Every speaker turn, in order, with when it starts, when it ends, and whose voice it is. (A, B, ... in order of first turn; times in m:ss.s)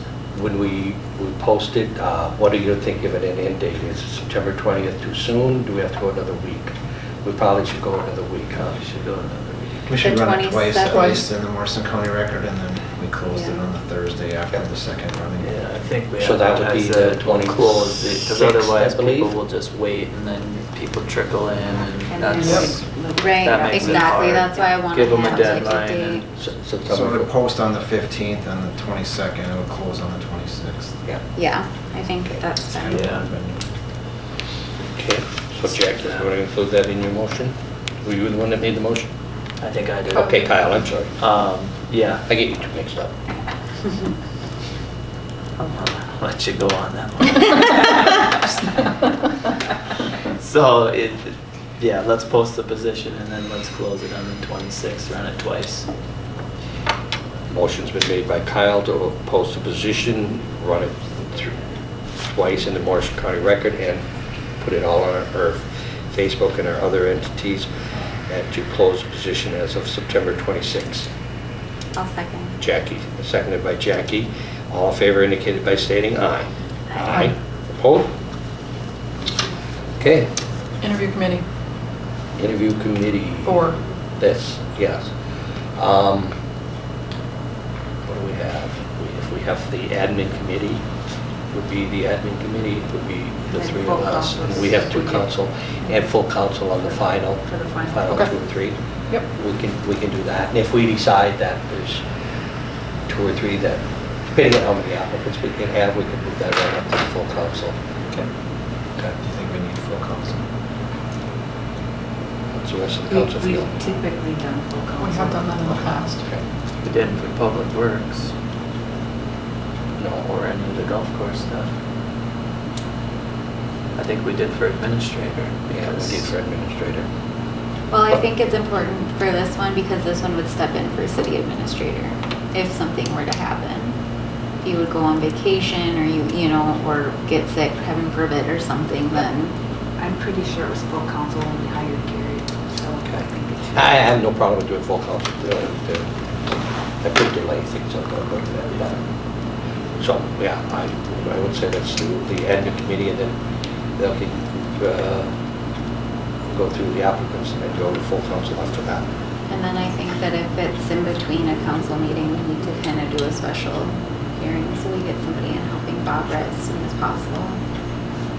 0:00.3-0:08.6 A
0:08.5-0:09.9 B
0:09.9-0:15.5 C
0:10.0-0:11.2 D
0:10.9-0:11.2 E
0:13.3-0:13.6 D
0:15.4-0:26.3 B
0:16.2-0:19.3 A
0:22.2-0:23.0 F
0:22.4-0:22.7 E
0:23.0-0:26.2 D
0:24.0-0:24.4 F
0:26.4-0:27.3 A
0:26.9-0:31.0 C
0:31.3-0:33.2 D
0:32.7-0:33.6 C
0:32.8-0:33.4 B
0:34.9-0:39.1 A
0:35.8-0:36.2 B
0:39.6-0:40.4 B
0:40.1-0:41.1 A
0:40.2-0:40.6 E
0:41.2-0:42.2 B
0:42.3-0:43.1 A
0:45.6-0:49.1 B
0:50.4-0:55.9 B
0:57.5-1:01.5 A
1:02.3-1:04.0 A
1:04.6-1:07.7 A
1:08.3-1:11.1 A
1:12.0-1:12.6 D
1:12.6-1:18.1 A
1:20.0-1:20.3 A
1:20.8-1:21.4 E
1:22.4-1:25.1 A
1:23.4-1:23.8 E
1:25.8-1:26.4 A
1:28.0-1:30.8 A
1:31.5-1:38.8 A
1:33.6-1:35.3 F
1:37.4-1:38.2 F
1:39.3-1:42.0 A
1:43.1-1:47.8 A
1:49.2-1:50.5 C
1:52.5-1:53.8 A
1:53.1-1:55.8 F
1:55.0-1:56.2 E
1:56.8-1:58.3 B
2:00.0-2:00.3 A
2:00.2-2:01.7 B
2:04.0-2:06.3 B
2:05.7-2:07.1 A
2:07.9-2:14.0 D
2:14.6-2:19.6 D
2:20.0-2:23.8 F
2:23.0-2:26.1 A
2:27.0-2:29.0 A
2:30.0-2:33.4 A
2:34.0-2:35.3 A
2:36.5-2:39.1 A
2:39.5-2:47.6 D